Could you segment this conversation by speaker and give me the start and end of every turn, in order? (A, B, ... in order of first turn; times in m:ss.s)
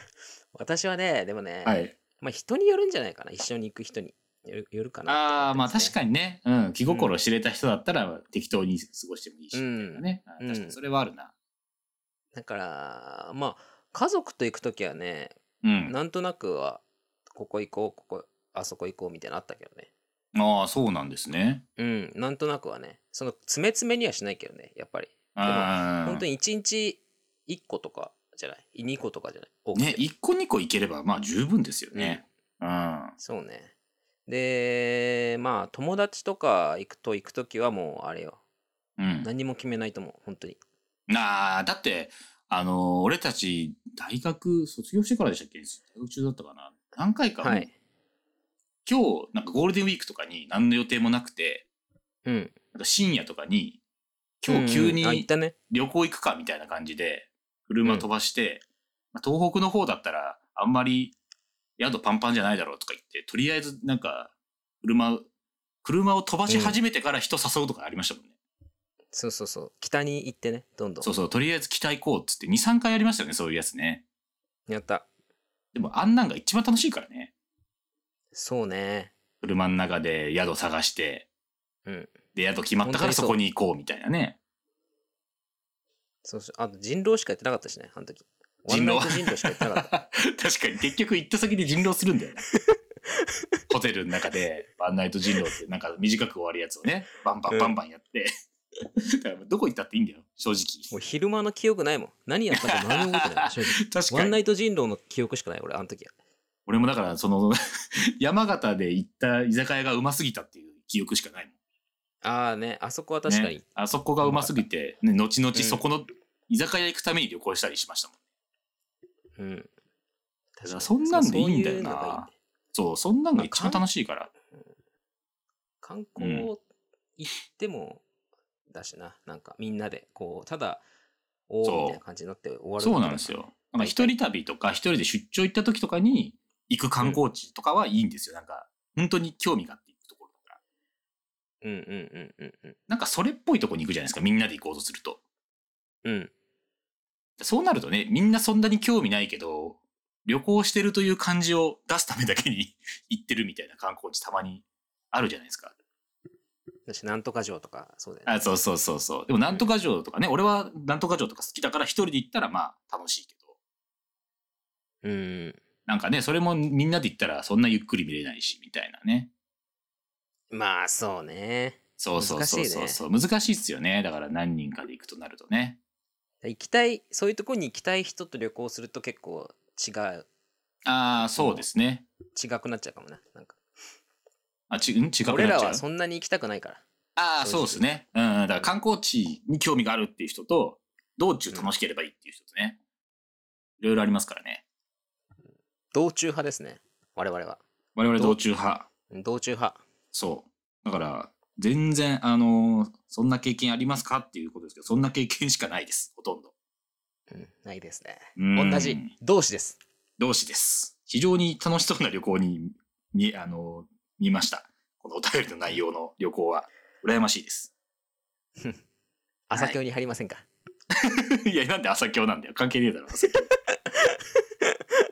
0:00.5-0:06.0 A
0:01.6-0:01.9 B
0:05.1-0:11.3 B
0:06.9-0:07.2 A
0:09.5-0:10.8 A
0:12.3-0:16.8 A
0:15.6-0:15.9 B
0:17.3-0:19.9 A
0:20.3-0:21.6 B
0:21.8-0:30.0 A
0:25.4-0:26.2 B
0:29.7-0:33.1 B
0:31.9-0:32.2 A
0:33.2-0:33.7 A
0:34.3-0:38.4 A
0:39.0-0:39.3 B
0:39.2-0:40.6 A
0:41.1-0:47.7 B
0:47.4-0:47.7 A
0:48.8-0:51.6 B
0:52.2-0:52.5 A
0:52.7-0:53.8 B
0:54.4-0:58.6 B
0:54.5-0:55.5 A
0:59.1-1:01.1 B
1:01.8-1:05.3 B
1:05.8-1:08.3 B
1:06.5-1:06.8 A
1:09.1-1:11.1 A
1:11.0-1:14.0 B
1:14.7-1:15.1 A
1:15.7-1:17.3 B
1:18.3-1:19.1 A
1:19.4-1:21.3 B
1:21.8-1:22.1 A
1:22.3-1:24.4 B
1:22.8-1:23.4 A
1:26.2-1:29.9 A
1:28.7-1:32.4 B
1:32.7-1:33.4 A
1:33.7-1:38.3 B
1:37.5-1:37.7 A
1:39.2-1:40.9 B
1:40.9-1:46.1 A
1:42.5-1:44.4 B
1:46.7-1:51.5 B
1:52.2-1:53.6 A
1:53.3-1:58.1 B
1:54.2-1:54.6 A
1:55.5-1:55.8 A
1:59.4-1:59.7 A
2:00.6-2:02.3 A
2:00.6-2:04.3 B
2:03.4-2:03.8 A
2:05.8-2:06.6 A
2:06.2-2:06.5 B
2:07.2-2:08.0 A
2:08.7-2:10.8 A
2:11.5-2:14.1 A
2:11.6-2:12.0 B
2:12.8-2:20.6 B
2:21.6-2:22.8 A
2:22.9-2:25.2 B
2:26.0-2:26.3 A
2:27.4-2:35.7 B
2:36.9-2:38.4 A
2:38.2-2:43.5 B
2:45.0-2:45.6 A
2:45.9-2:49.3 B
2:50.5-2:53.0 A
2:52.0-2:55.8 B
2:56.4-3:00.3 A
3:00.8-3:02.0 B
3:01.2-3:01.6 A
3:02.3-3:03.6 A
3:04.7-3:05.8 B
3:05.2-3:06.8 A
3:07.2-3:12.8 B
3:07.4-3:07.8 A
3:13.8-3:14.6 B
3:15.9-3:17.6 A
3:18.0-3:18.9 B
3:19.1-3:19.8 A
3:20.1-3:26.5 B
3:27.3-3:29.8 A
3:28.4-3:29.1 B
3:30.2-3:37.7 B
3:39.5-3:40.4 A
3:40.9-3:43.5 B
3:43.9-3:44.7 A